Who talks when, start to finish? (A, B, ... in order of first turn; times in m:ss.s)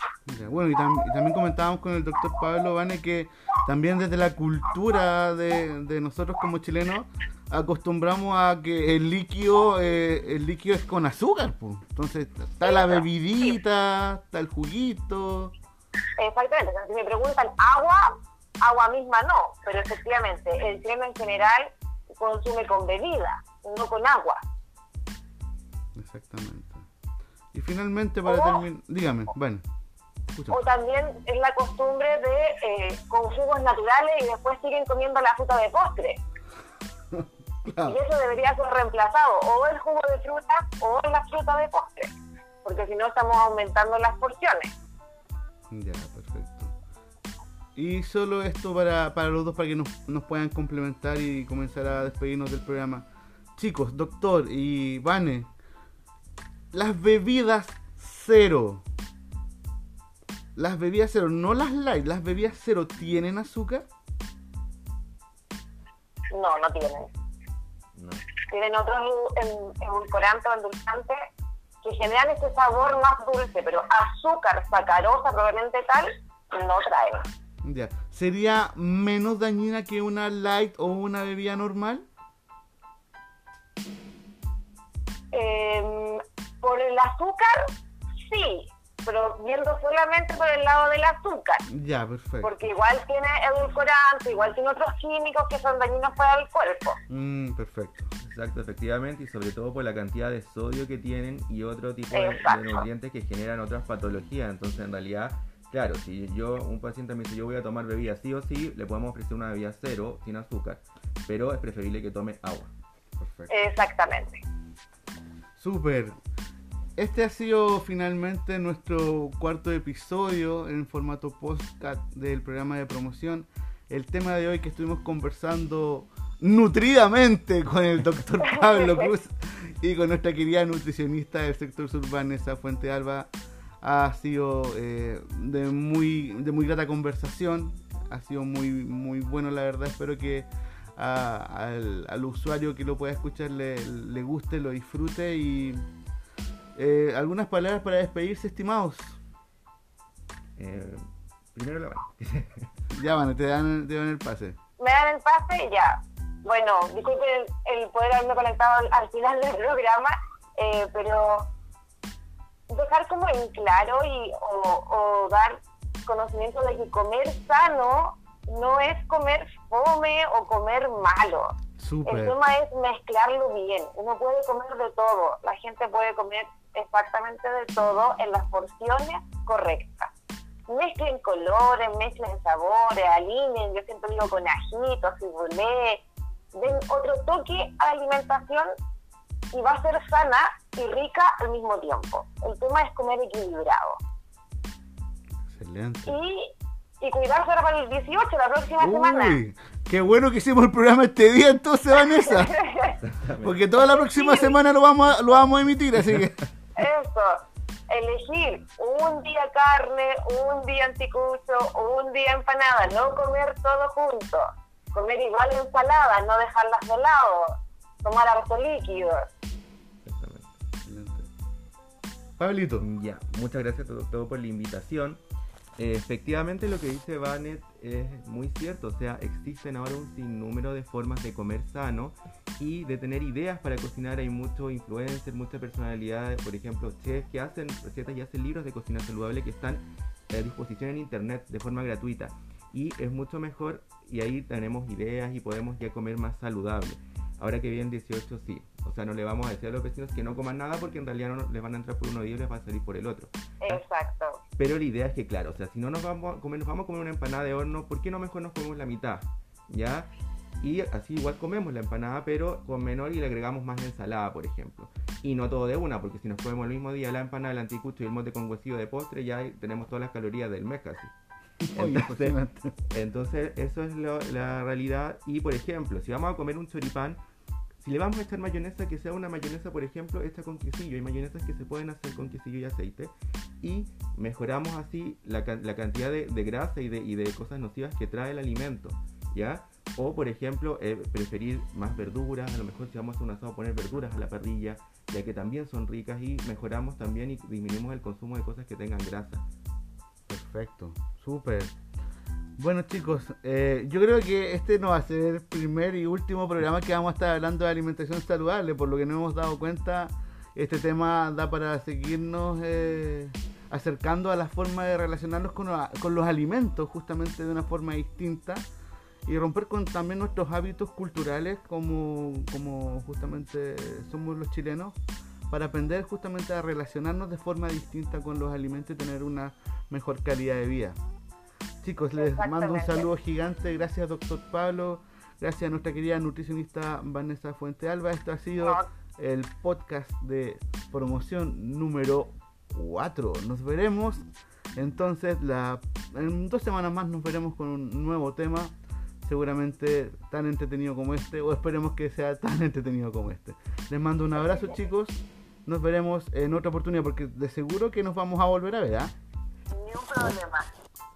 0:00.3-0:15.5 A
0:12.6-0:13.5 B
0:16.2-0:24.4 B
0:26.0-0:26.8 A
0:27.5-0:29.6 A
0:28.3-0:28.6 B
0:30.3-0:30.6 A
0:30.5-0:36.2 B
0:37.1-0:38.0 A
0:37.8-0:42.1 B
0:42.6-0:44.7 B
0:45.7-0:46.7 A
0:47.8-0:55.5 A
0:56.7-0:58.8 A
1:00.6-1:03.8 A
1:06.3-1:07.1 B
1:08.0-1:08.2 C
1:08.4-1:11.3 B
1:11.8-1:17.3 B
1:17.6-1:22.0 A
1:25.3-1:31.7 B
1:31.7-1:32.5 A
1:32.4-1:37.0 B
1:37.1-1:38.1 A
1:38.2-1:52.7 C
1:42.1-1:42.8 B
1:53.2-1:53.5 A
1:53.5-1:54.4 B
1:55.6-1:56.2 A
1:57.0-2:13.3 A
2:08.4-2:09.1 B
2:13.8-2:25.8 A
2:26.8-2:29.2 A
2:30.6-2:32.7 C
2:32.9-2:34.6 A
2:34.8-2:41.5 B
2:42.7-2:51.5 B
2:51.8-2:52.3 A
2:52.0-3:00.1 B
3:00.7-3:06.0 B
3:06.5-3:08.7 B
3:09.5-3:14.0 B
3:15.5-3:16.2 A
3:16.0-3:19.4 B
3:18.8-3:22.5 A
3:22.2-3:23.0 B
3:23.0-3:23.6 C
3:23.4-3:26.4 A
3:23.8-3:24.6 B
3:26.8-3:39.3 B
3:40.0-3:40.5 C
3:40.8-3:41.3 A
3:42.4-3:42.9 A
3:42.8-3:45.2 C
3:45.8-4:13.8 C
4:13.6-4:14.4 B
4:14.6-4:20.1 C
4:20.6-4:31.1 C
4:31.6-4:32.8 A
4:31.7-4:32.4 C
4:32.9-4:37.2 C
4:37.8-4:59.4 C
5:00.3-5:01.7 A
5:02.6-5:18.6 A
5:19.2-5:25.0 A
5:25.5-5:31.0 A
5:31.8-5:44.2 A
5:32.2-5:33.1 B
5:38.6-5:38.9 B
5:44.8-5:48.7 A
5:49.2-5:59.1 A
5:54.4-5:54.7 B
5:59.7-6:00.7 B